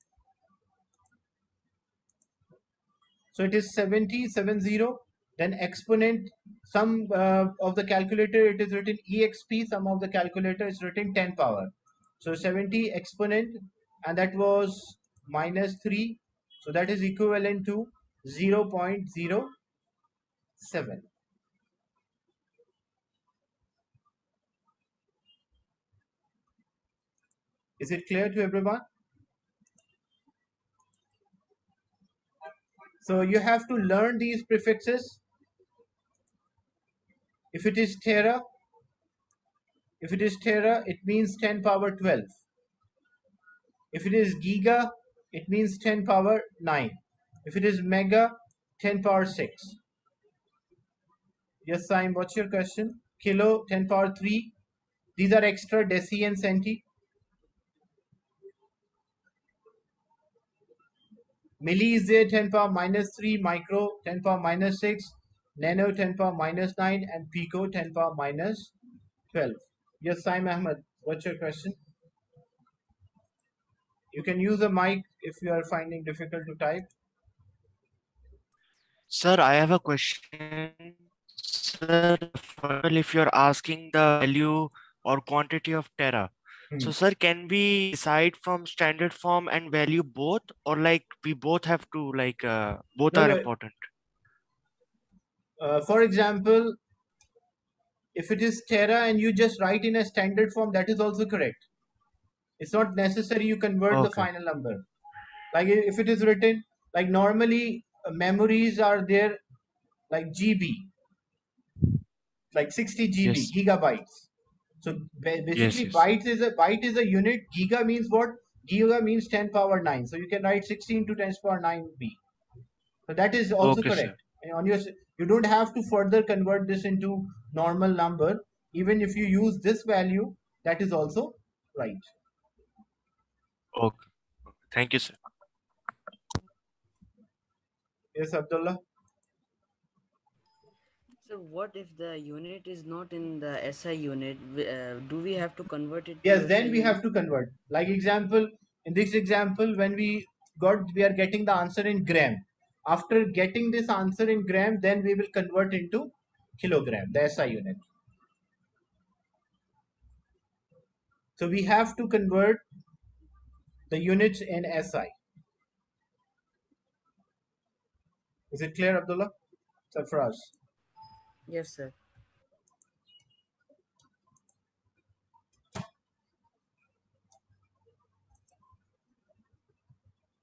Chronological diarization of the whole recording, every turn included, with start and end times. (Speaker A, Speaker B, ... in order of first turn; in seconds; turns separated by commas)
Speaker A: 3.3-19.5, Speaker A: 20.6-21.1, Speaker A: 27.8-28.9, Speaker A: 33.0-35.2, Speaker A: 37.5-38.4, Speaker A: 40.0-42.4, Speaker A: 43.9-49.8, Speaker A: 51.6-54.5, Speaker A: 55.2-56.8, Speaker A: 61.6-68.7, Speaker A: 69.3-71.8, Speaker A: 74.1-76.9, Speaker B: 79.1-93.9, Speaker A: 93.1-93.5, Speaker A: 95.6-96.8, Speaker A: 98.2-101.7, Speaker A: 102.6-104.9, Speaker B: 103.9-104.3, Speaker A: 105.5-109.4, Speaker A: 110.1-110.9, Speaker A: 112.5-114.3, Speaker B: 113.2-113.5, Speaker A: 114.8-122.2, Speaker B: 115.5-116.0, Speaker A: 123.1-132.1, Speaker B: 123.6-124.1, Speaker B: 133.7-134.0, Speaker B: 134.7-135.2, Speaker A: 138.2-138.8, Speaker C: 141.2-147.0, Speaker A: 146.2-157.8, Speaker A: 161.4-162.6, Speaker A: 163.9-165.1, Speaker A: 168.5-169.3, Speaker A: 169.9-170.5, Speaker C: 171.5-171.9